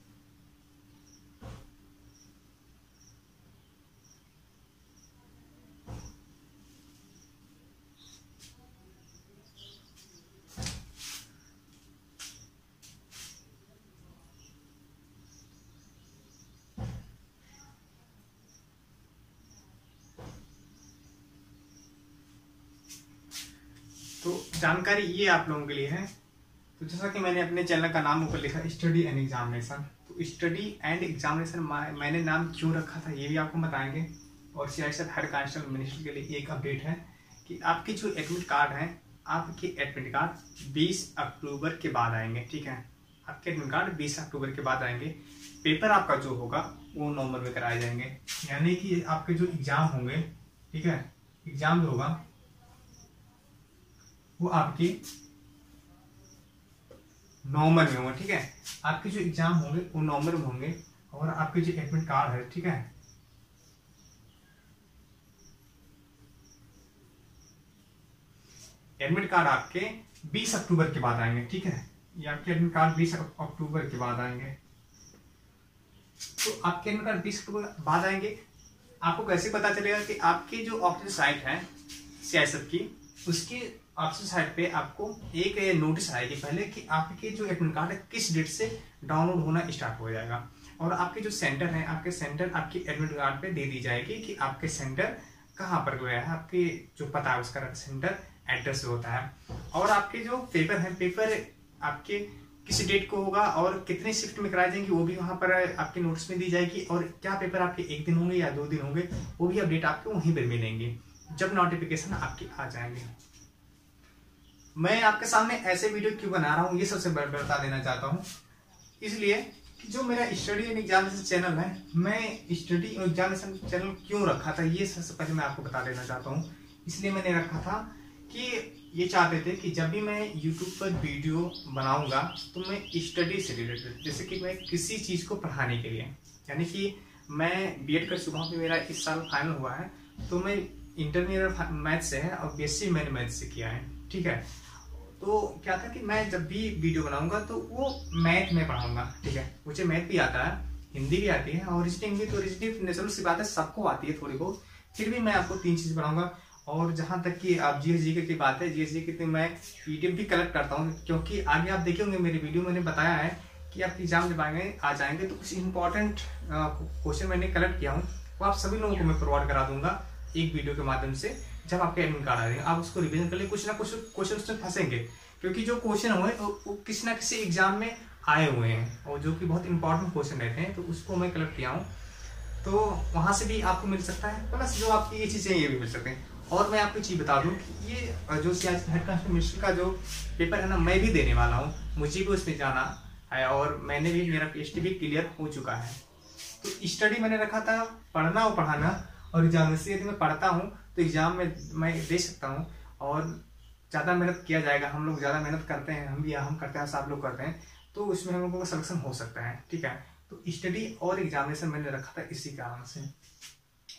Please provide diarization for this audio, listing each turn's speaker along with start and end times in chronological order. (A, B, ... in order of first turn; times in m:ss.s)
0:24.2-0:26.1 A
0:26.8-0:52.2 A
0:54.4-0:55.0 A
0:57.4-1:02.9 A
1:09.0-1:14.6 A
1:16.4-1:18.4 A
1:19.0-1:53.1 A
1:54.8-1:58.3 A
1:59.0-3:01.9 A
3:02.6-3:16.0 A
3:16.6-3:23.4 A
3:23.9-3:33.1 A